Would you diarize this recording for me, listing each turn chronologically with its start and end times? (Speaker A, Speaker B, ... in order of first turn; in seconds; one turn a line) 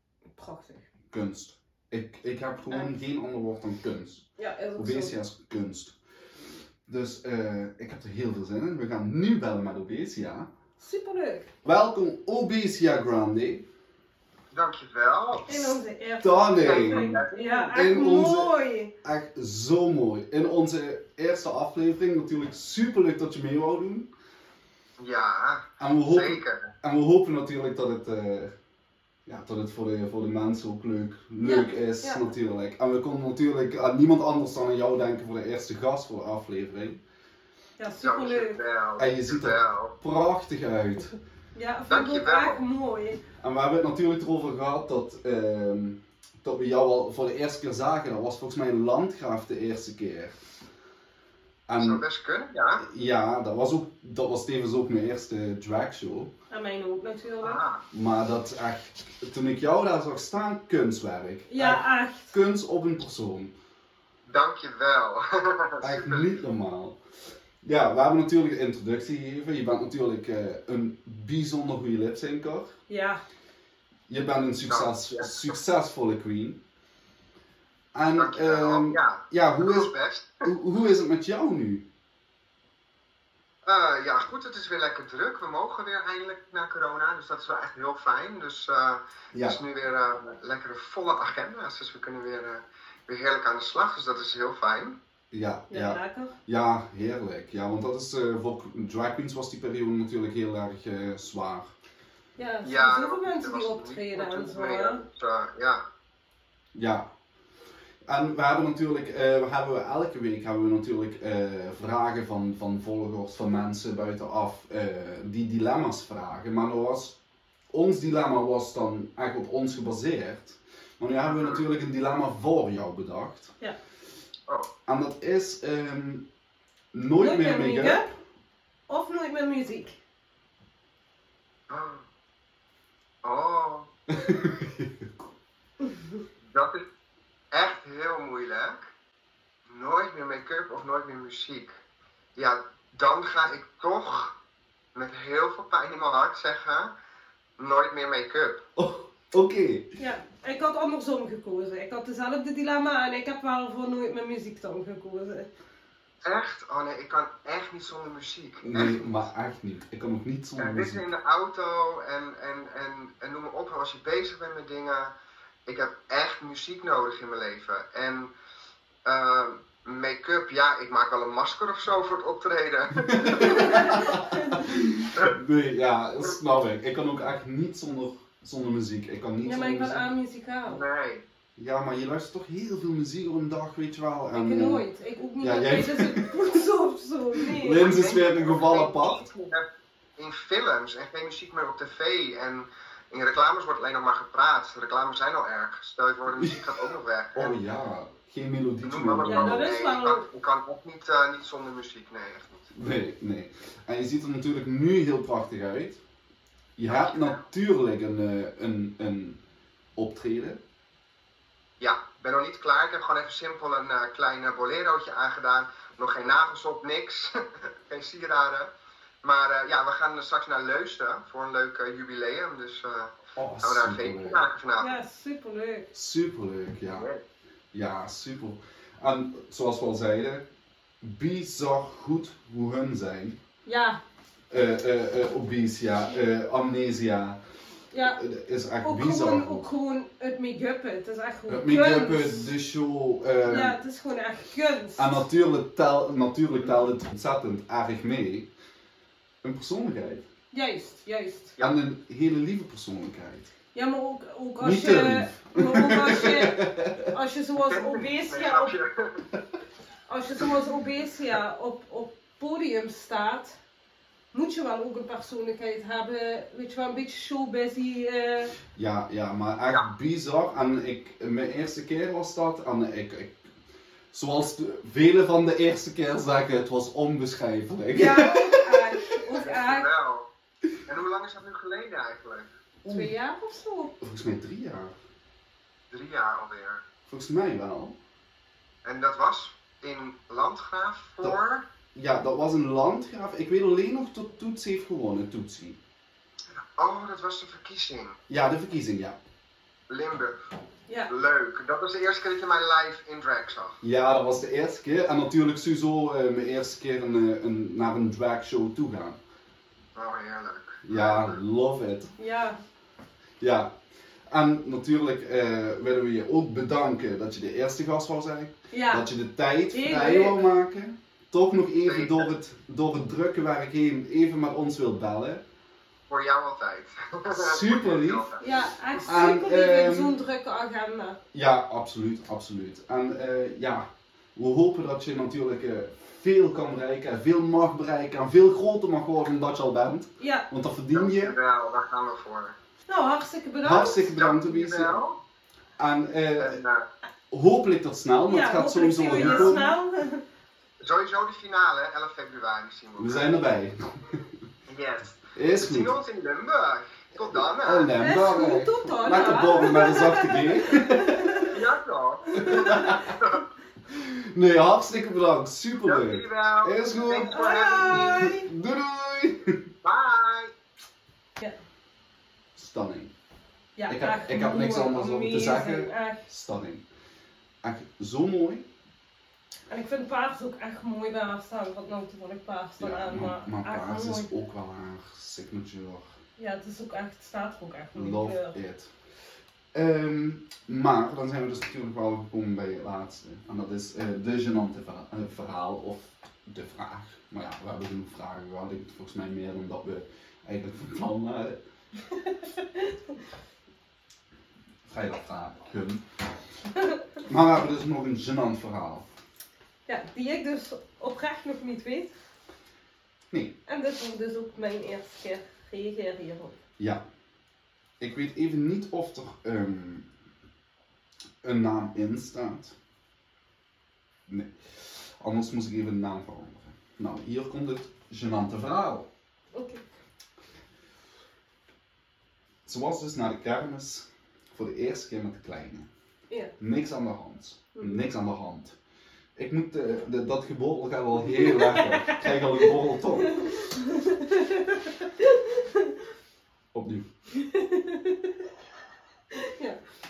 Speaker A: 0.4-0.8
Speaker B: 1.1-4.2
Speaker A: 4.4-5.1
Speaker B: 4.8-6.0
Speaker B: 6.9-10.5
Speaker A: 10.8-11.5
Speaker B: 11.6-13.6
Speaker C: 14.5-15.8
Speaker A: 15.5-18.9
Speaker B: 16.2-17.2
Speaker C: 16.6-17.7
Speaker B: 17.7-24.1
Speaker C: 25.0-26.7
Speaker B: 25.8-28.5
Speaker B: 29.2-37.0
Speaker A: 31.4-32.2
Speaker A: 37.8-38.6
Speaker C: 38.0-39.9
Speaker B: 39.0-41.2
Speaker A: 41.5-43.2
Speaker C: 41.9-42.6
Speaker B: 43.4-50.4
Speaker B: 51.7-52.0
Speaker C: 51.8-52.8
Speaker B: 52.8-56.3
Speaker A: 56.5-57.6
Speaker C: 57.4-57.8
Speaker B: 57.9-63.5
Speaker A: 61.5-62.3
Speaker C: 64.3-66.3
Speaker B: 65.8-67.0
Speaker B: 67.6-72.7
Speaker A: 72.9-73.2
Speaker B: 74.1-76.6
Speaker C: 74.7-75.5
Speaker B: 77.9-79.9
Speaker C: 78.2-80.5
Speaker B: 80.4-81.8
Speaker C: 83.6-95.0
Speaker B: 89.3-89.6
Speaker B: 95.3-101.7
Speaker A: 95.7-96.3
Speaker A: 102.4-105.0
Speaker C: 102.6-105.8
Speaker B: 106.7-107.1
Speaker B: 108.1-117.2
Speaker B: 117.7-123.5
Speaker C: 121.3-121.6
Speaker B: 124.9-126.2
Speaker B: 126.9-128.2
Speaker A: 127.2-128.1
Speaker A: 128.9-130.0
Speaker C: 131.7-132.0
Speaker C: 133.2-133.9
Speaker B: 134.1-135.2
Speaker A: 135.8-136.1
Speaker C: 136.5-136.8
Speaker C: 137.5-138.8
Speaker C: 139.7-141.7
Speaker C: 142.3-144.3
Speaker C: 144.9-146.9
Speaker C: 147.6-148.6
Speaker B: 148.8-149.9
Speaker A: 150.0-155.5
Speaker C: 156.2-159.1
Speaker B: 158.6-161.1
Speaker C: 160.6-165.1
Speaker C: 165.7-168.3
Speaker C: 169.0-174.0
Speaker B: 173.1-180.1
Speaker A: 173.4-174.7
Speaker A: 179.4-180.8
Speaker C: 180.7-181.2
Speaker B: 181.6-184.8
Speaker A: 184.3-187.9
Speaker B: 185.4-186.3
Speaker B: 187.4-189.3
Speaker C: 187.7-189.7
Speaker C: 190.2-197.6
Speaker B: 196.3-196.7
Speaker B: 197.3-199.7
Speaker C: 198.8-202.7
Speaker A: 199.2-200.2
Speaker B: 202.7-206.0
Speaker B: 206.8-209.4
Speaker C: 206.9-207.4
Speaker B: 209.9-210.6
Speaker C: 211.8-218.7
Speaker C: 219.2-225.0
Speaker B: 223.3-224.4
Speaker A: 224.8-225.9
Speaker B: 225.9-227.1
Speaker C: 226.9-227.2
Speaker B: 227.7-230.4
Speaker B: 231.0-233.4
Speaker A: 233.6-234.0
Speaker B: 234.5-237.4
Speaker A: 237.9-238.2
Speaker B: 238.1-239.7
Speaker A: 238.8-242.5
Speaker B: 241.5-243.8
Speaker A: 243.4-245.2
Speaker B: 245.0-248.5
Speaker B: 249.4-250.2
Speaker A: 250.5-251.6
Speaker B: 251.6-253.5
Speaker A: 253.7-258.7
Speaker B: 254.6-257.1
Speaker C: 257.6-259.2
Speaker A: 260.1-263.6
Speaker A: 264.3-268.6
Speaker B: 268.7-273.4
Speaker B: 274.1-278.8
Speaker A: 277.9-279.9
Speaker C: 279.4-280.3
Speaker C: 280.9-282.5
Speaker B: 282.8-283.1
Speaker A: 282.9-283.9
Speaker B: 284.0-284.9
Speaker C: 285.9-286.8
Speaker B: 287.1-288.0
Speaker C: 288.8-291.7
Speaker B: 291.9-295.8
Speaker C: 296.8-298.2
Speaker B: 298.3-299.2
Speaker C: 299.9-300.3
Speaker C: 301.1-303.8
Speaker B: 303.8-309.2
Speaker C: 309.9-311.4
Speaker B: 310.8-312.1
Speaker A: 312.2-312.6
Speaker B: 313.4-313.7
Speaker B: 314.3-325.4
Speaker A: 318.7-319.1
Speaker A: 319.7-320.4
Speaker C: 321.8-322.3
Speaker C: 326.1-328.4
Speaker B: 327.3-328.3
Speaker A: 328.4-331.2
Speaker B: 329.0-330.2
Speaker B: 331.3-341.3
Speaker A: 340.2-340.5
Speaker C: 340.9-342.6
Speaker A: 342.9-344.1
Speaker B: 343.6-345.0
Speaker C: 344.1-345.2
Speaker B: 345.8-346.6
Speaker C: 346.4-346.9
Speaker B: 347.3-349.7
Speaker A: 348.3-350.2
Speaker C: 349.1-349.6
Speaker C: 350.8-353.4
Speaker B: 353.0-354.3
Speaker C: 354.7-357.9
Speaker B: 355.3-355.9
Speaker B: 357.3-361.4
Speaker A: 358.0-361.6
Speaker C: 361.4-363.4
Speaker A: 362.3-363.0
Speaker B: 362.4-363.2
Speaker B: 363.9-369.6
Speaker C: 365.8-368.3
Speaker A: 367.1-368.5
Speaker C: 369.8-370.5
Speaker B: 372.6-373.1
Speaker A: 373.8-376.2
Speaker B: 373.9-376.8
Speaker B: 377.6-378.7
Speaker A: 379.7-384.3
Speaker B: 382.8-386.1
Speaker A: 386.4-388.6
Speaker B: 387.9-388.9
Speaker B: 389.7-401.6
Speaker A: 402.2-403.0
Speaker B: 404.9-406.0
Speaker B: 407.2-409.1
Speaker A: 409.9-412.1
Speaker B: 413.3-413.6
Speaker A: 413.7-416.6
Speaker B: 416.8-417.0
Speaker B: 418.0-420.1
Speaker B: 421.4-422.7
Speaker B: 424.3-429.1
Speaker A: 429.5-429.8
Speaker B: 432.6-435.9
Speaker B: 436.6-438.8
Speaker B: 439.4-443.5
Speaker A: 441.5-442.3
Speaker A: 443.3-445.9
Speaker B: 446.7-447.1
Speaker A: 447.3-448.4
Speaker A: 449.3-449.8